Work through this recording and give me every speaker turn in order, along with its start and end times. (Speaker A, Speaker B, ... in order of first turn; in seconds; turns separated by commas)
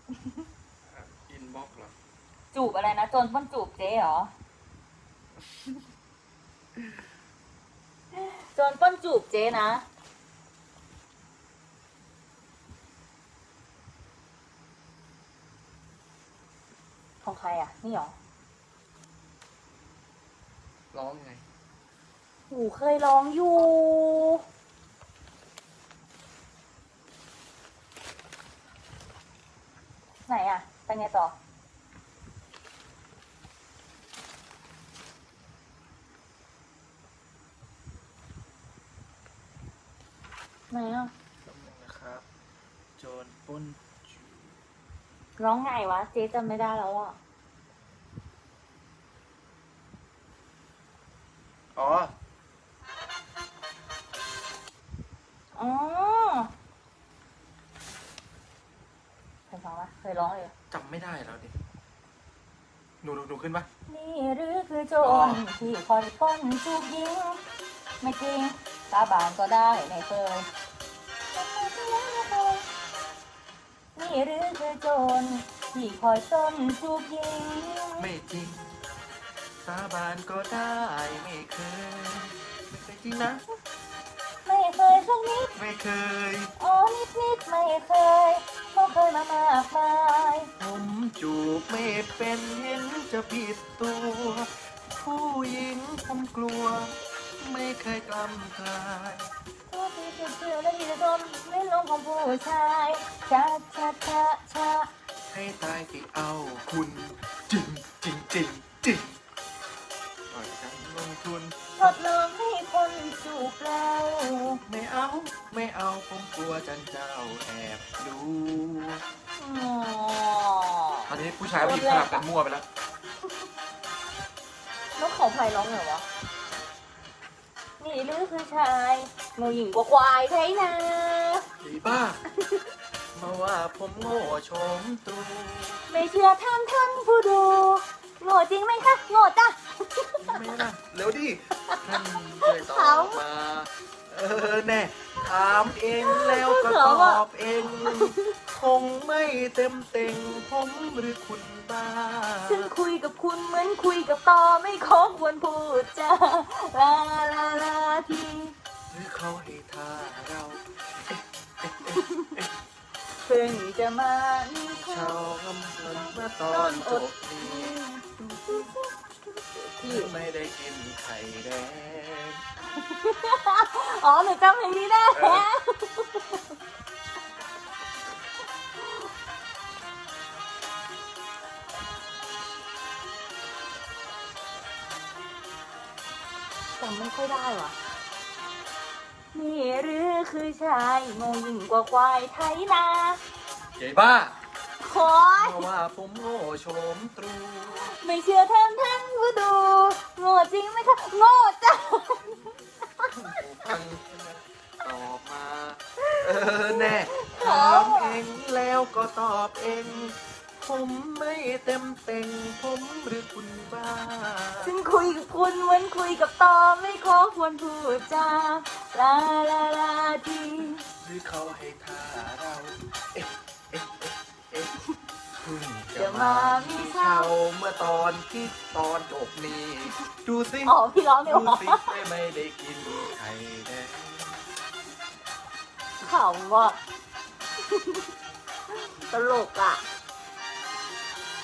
Speaker A: 0.8-1.9, Speaker B: 2.5-4.3, Speaker A: 5.4-5.8, Speaker A: 6.8-7.0, Speaker B: 8.1-9.8, Speaker B: 17.2-18.2, Speaker A: 20.9-21.5, Speaker B: 22.5-24.4, Speaker B: 30.3-31.4, Speaker B: 40.7-41.1, Speaker A: 41.4-42.3, Speaker A: 43.0-44.6, Speaker B: 45.4-47.2, Speaker A: 51.8-52.1, Speaker B: 55.6-56.5, Speaker B: 59.5-60.5, Speaker A: 60.7-61.6, Speaker A: 63.0-63.7, Speaker B: 63.9-67.4, Speaker A: 65.0-65.5, Speaker B: 68.0-70.5, Speaker B: 71.3-72.7, Speaker B: 74.0-78.1, Speaker A: 78.0-78.7, Speaker A: 79.6-83.4, Speaker B: 84.5-85.5, Speaker A: 85.5-86.5, Speaker B: 86.6-90.5, Speaker A: 90.6-99.3, Speaker B: 99.7-104.9, Speaker A: 105.3-109.2, Speaker A: 110.3-112.0, Speaker B: 111.8-114.6, Speaker A: 114.7-119.0, Speaker B: 119.4-122.3, Speaker A: 121.1-122.7, Speaker B: 125.0-126.1, Speaker B: 127.8-131.4, Speaker A: 131.6-132.2, Speaker A: 133.2-135.8, Speaker B: 135.9-140.6, Speaker A: 140.2-152.7, Speaker B: 141.7-143.2, Speaker B: 146.0-148.3, Speaker B: 152.5-158.6, Speaker A: 158.9-162.5, Speaker B: 161.9-162.3, Speaker B: 163.2-165.2, Speaker A: 164.8-167.8, Speaker B: 165.9-170.1, Speaker A: 168.3-168.7, Speaker A: 169.8-172.4, Speaker B: 172.8-176.4, Speaker A: 175.1-175.5, Speaker B: 178.8-179.1, Speaker B: 186.8-187.8, Speaker B: 189.3-193.2, Speaker A: 193.8-194.4, Speaker B: 194.8-195.7, Speaker A: 195.4-197.9, Speaker B: 197.8-202.4, Speaker A: 203.1-214.7, Speaker B: 206.1-208.2, Speaker B: 214.6-220.8, Speaker A: 221.0-224.7, Speaker A: 225.4-234.4, Speaker B: 226.0-227.3, Speaker B: 230.7-231.9, Speaker B: 236.0-236.8, Speaker B: 237.6-238.1, Speaker B: 238.7-239.8